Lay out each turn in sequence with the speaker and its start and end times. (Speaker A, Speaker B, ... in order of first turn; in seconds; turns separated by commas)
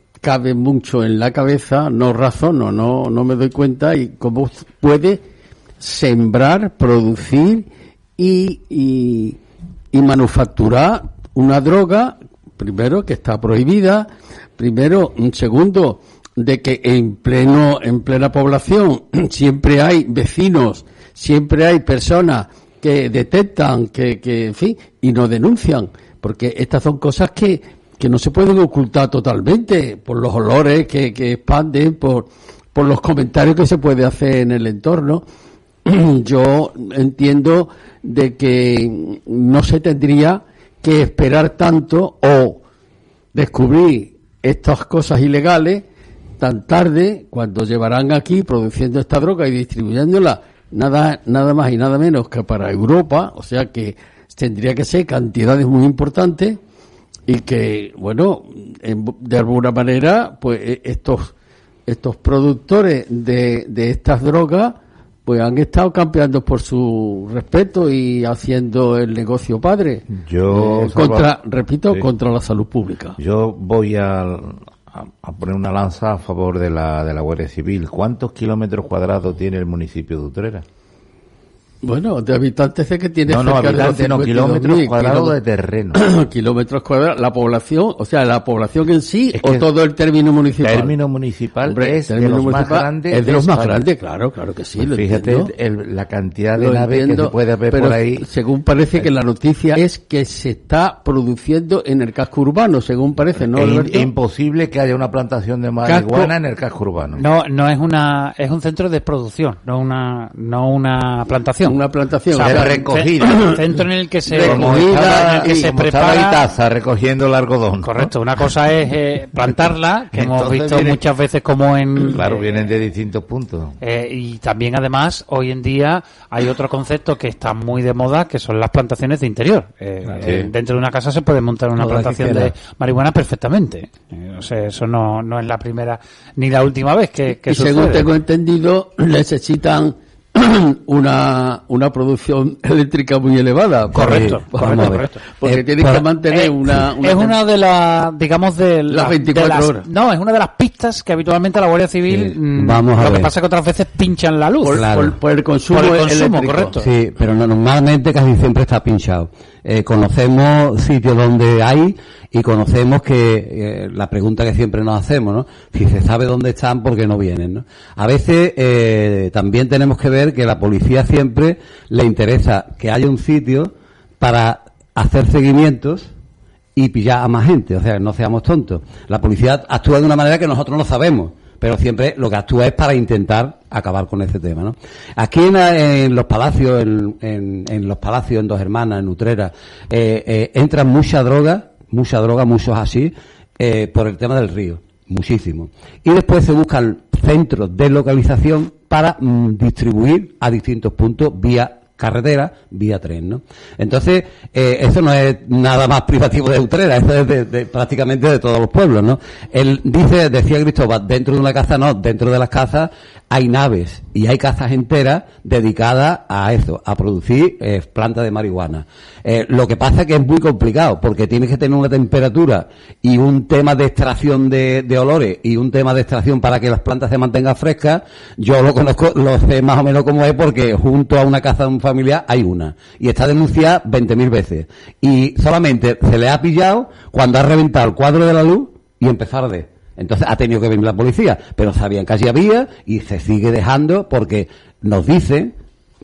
Speaker A: 0.2-5.2, Speaker A: 5.8-9.4, Speaker A: 9.9-35.2, Speaker A: 35.9-42.6, Speaker A: 43.3-45.8, Speaker A: 46.4-56.6, Speaker A: 57.3-61.3, Speaker A: 61.9-73.2, Speaker B: 70.1-72.1, Speaker B: 73.2-80.6, Speaker A: 81.8-85.3, Speaker B: 83.3-86.0, Speaker A: 85.9-91.0, Speaker B: 89.3-89.7, Speaker B: 90.6-93.9, Speaker A: 91.6-95.5, Speaker B: 94.8-98.3, Speaker A: 96.5-104.1, Speaker B: 103.5-107.2, Speaker A: 105.8-106.3, Speaker C: 107.2-111.8, Speaker A: 111.7-113.7, Speaker C: 112.3-116.5, Speaker B: 112.4-113.5, Speaker A: 114.3-115.7, Speaker B: 114.4-118.1, Speaker C: 117.8-122.4, Speaker B: 120.1-121.0, Speaker B: 122.1-123.8, Speaker C: 123.8-138.1, Speaker B: 130.1-130.5, Speaker B: 131.8-132.5, Speaker A: 137.4-147.4, Speaker C: 143.9-145.3, Speaker D: 143.9-146.2, Speaker C: 146.2-155.0, Speaker A: 148.9-149.8, Speaker D: 152.1-153.3, Speaker A: 154.6-156.8, Speaker D: 154.7-155.1, Speaker C: 155.7-156.8, Speaker D: 156.8-176.1, Speaker D: 176.8-245.5